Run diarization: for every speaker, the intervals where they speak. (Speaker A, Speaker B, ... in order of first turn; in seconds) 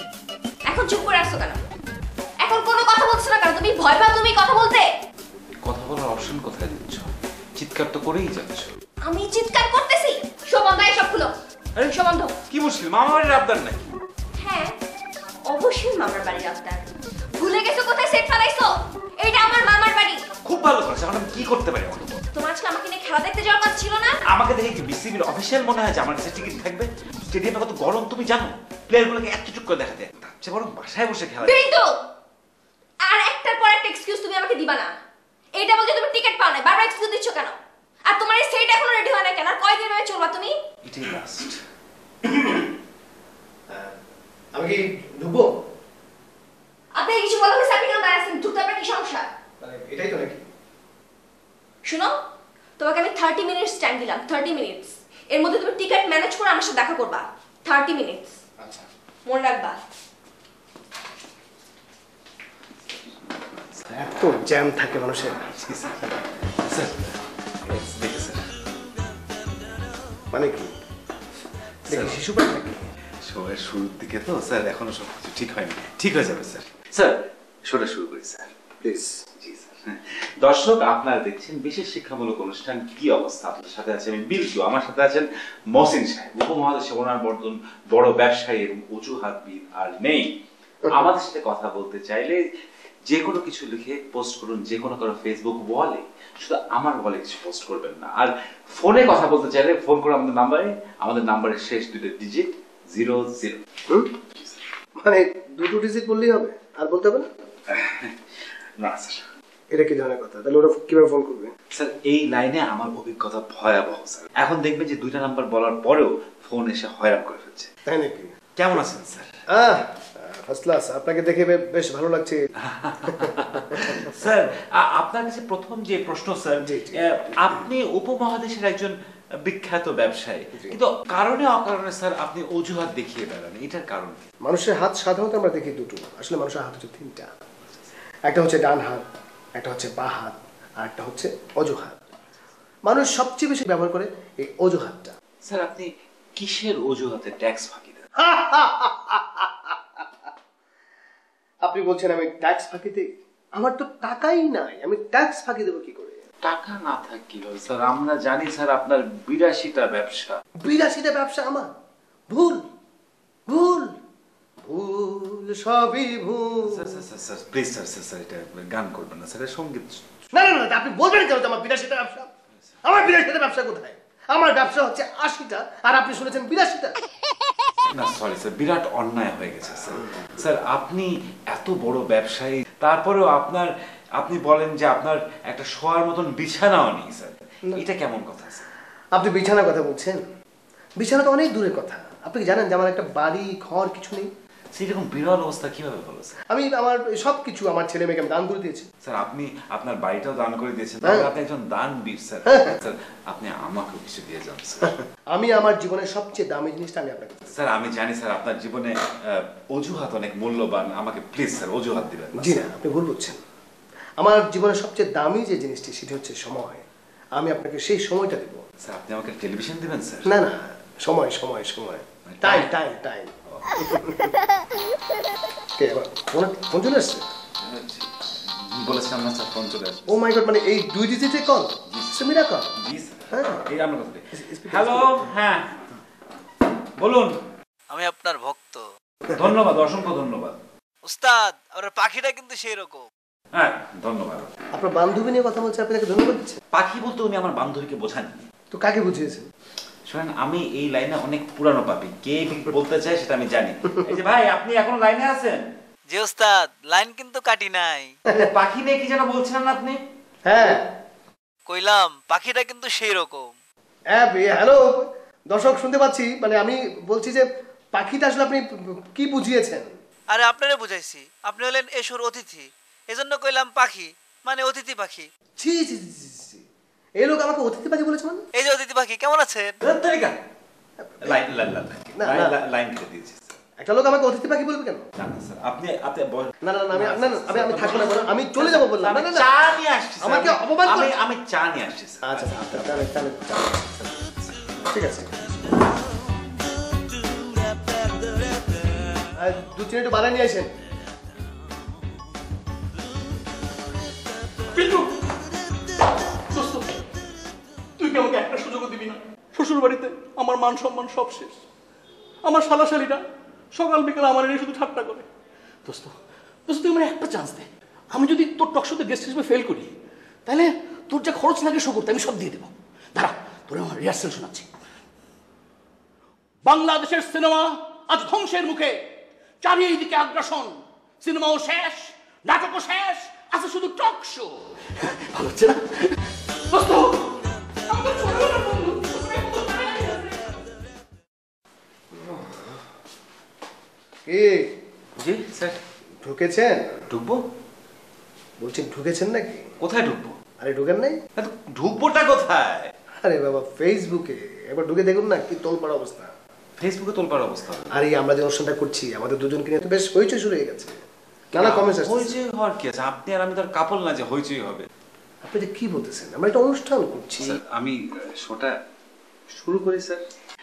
Speaker A: 0.7-1.6, 2.4-4.9, 9.1-11.3, 11.9-12.3, 14.4-14.7, 15.5-16.9, 17.4-20.2, 22.3-24.2, 31.4-31.9, 33.0-34.9, 35.6-37.5, 38.1-40.5, 47.0-49.3, 51.9-52.1, 52.8-58.4, 59.3-59.8
Speaker B: 5.7-8.7, 12.5-13.9, 20.4-22.2, 24.3-31.6, 40.8-41.6, 63.1-63.9, 65.5-66.9, 67.7-68.4, 71.9-72.2, 73.2-77.1, 77.7-78.5, 79.4-90.3, 90.9-92.4, 93.1-103.6, 107.7-108.2, 108.8-109.2, 111.7-117.7, 118.6-119.3, 122.6-134.2, 145.4-148.1, 156.4-160.4, 166.7-170.0, 177.9-188.7, 194.7-196.4, 199.0-205.0, 207.5-212.7, 218.8-220.3, 222.3-222.7, 223.5-223.8, 227.6-230.2, 231.9-232.2, 232.8-235.9, 237.0-237.3, 239.3-240.6, 243.5-244.5, 246.7-248.4, 250.1-255.6, 258.3-260.0, 279.8-280.4, 281.2-283.6, 285.2-293.1, 294.3-294.6, 345.2-345.8, 347.1-347.4, 349.8-350.4, 351.4-352.9, 356.8-358.0, 361.6-364.9, 367.4-368.7, 369.5-370.2
Speaker C: 44.5-45.5, 49.6-50.4, 58.6-58.9, 63.9-65.5, 70.3-70.7, 71.9-72.9, 78.8-79.1, 105.0-107.3, 109.7-111.5, 117.9-118.3, 119.5-122.4, 123.1-124.1, 126.6-127.0, 134.4-137.3, 138.3-139.0, 139.6-142.0, 142.9-145.1, 148.2-150.0, 151.7-156.2, 160.6-161.7, 162.3-162.6, 163.5-163.9, 164.7-167.0, 170.3-172.3, 172.8-176.9, 189.2-190.2, 191.0-194.3, 196.5-198.9, 201.0-201.3, 202.5-202.8, 205.3-207.6, 212.3-213.4, 214.2-216.8, 217.4-218.6, 220.3-224.3, 225.8-227.2, 230.1-232.7, 233.3-233.6, 234.3-235.3, 244.7-246.6, 248.7-249.5, 260.5-260.8, 264.1-268.6, 269.1-269.9, 275.6-276.6, 277.2-278.4, 281.0-281.4, 282.2-282.6, 283.8-285.0, 286.6-289.5, 290.2-291.1, 292.2-294.1, 294.9-295.4, 299.4-300.7, 342.1-342.8, 344.3-344.7, 346.2-347.0, 348.6-349.6, 350.6-351.2, 353.2-356.3, 357.9-360.9, 361.5-362.4, 365.4-367.6
Speaker D: 237.9-238.8, 241.0-243.1, 256.1-258.1, 261.7-263.5, 270.3-275.3, 278.6-279.8, 335.0-335.7
Speaker E: 304.7-305.2, 306.5-307.0, 308.0-311.6, 312.4-313.2, 313.7-315.2, 315.9-316.1, 316.7-319.9, 320.5-324.6, 326.6-329.0, 329.6-334.6, 335.4-335.8, 336.7-337.3, 337.9-340.4